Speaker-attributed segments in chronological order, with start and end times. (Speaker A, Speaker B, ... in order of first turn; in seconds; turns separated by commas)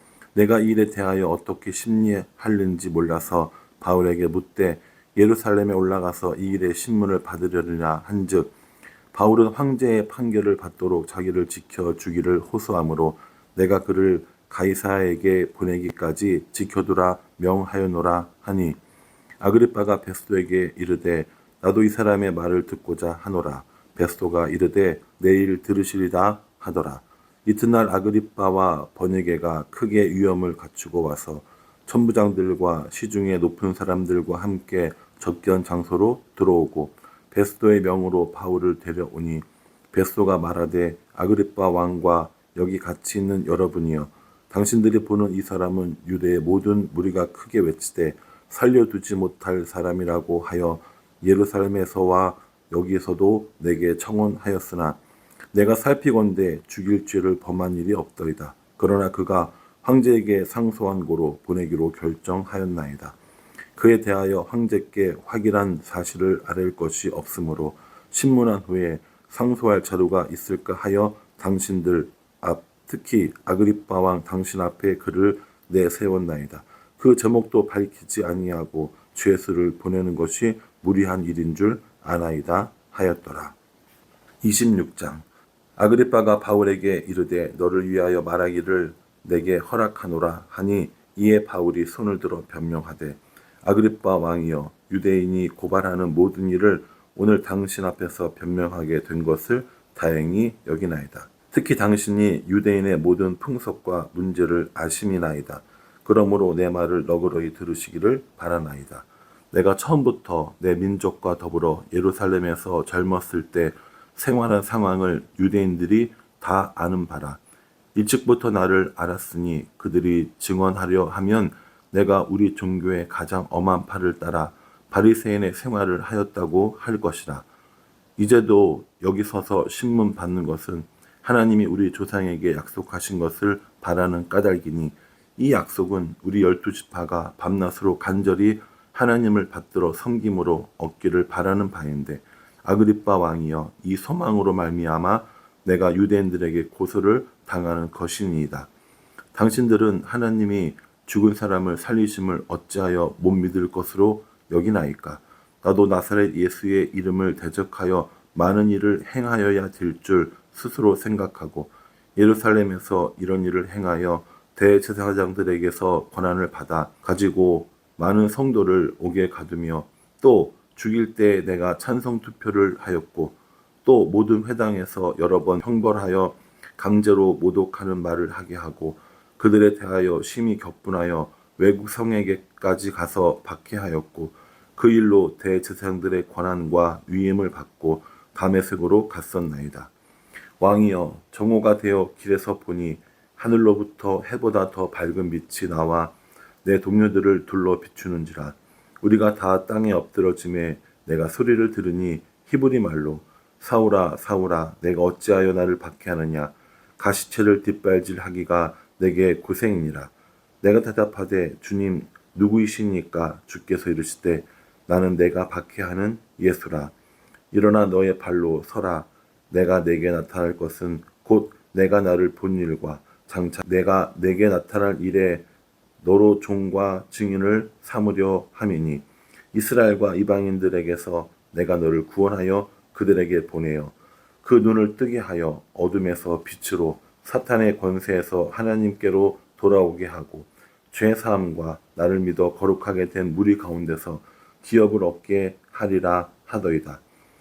Speaker A: 0.3-8.5, Speaker A: 9.1-18.8, Speaker A: 19.4-55.0, Speaker A: 55.5-63.2, Speaker A: 63.8-83.5, Speaker A: 84.4-117.4, Speaker A: 117.9-127.5, Speaker A: 128.2-148.7, Speaker A: 149.3-189.9, Speaker A: 190.6-216.9, Speaker A: 217.5-225.4, Speaker A: 226.0-247.0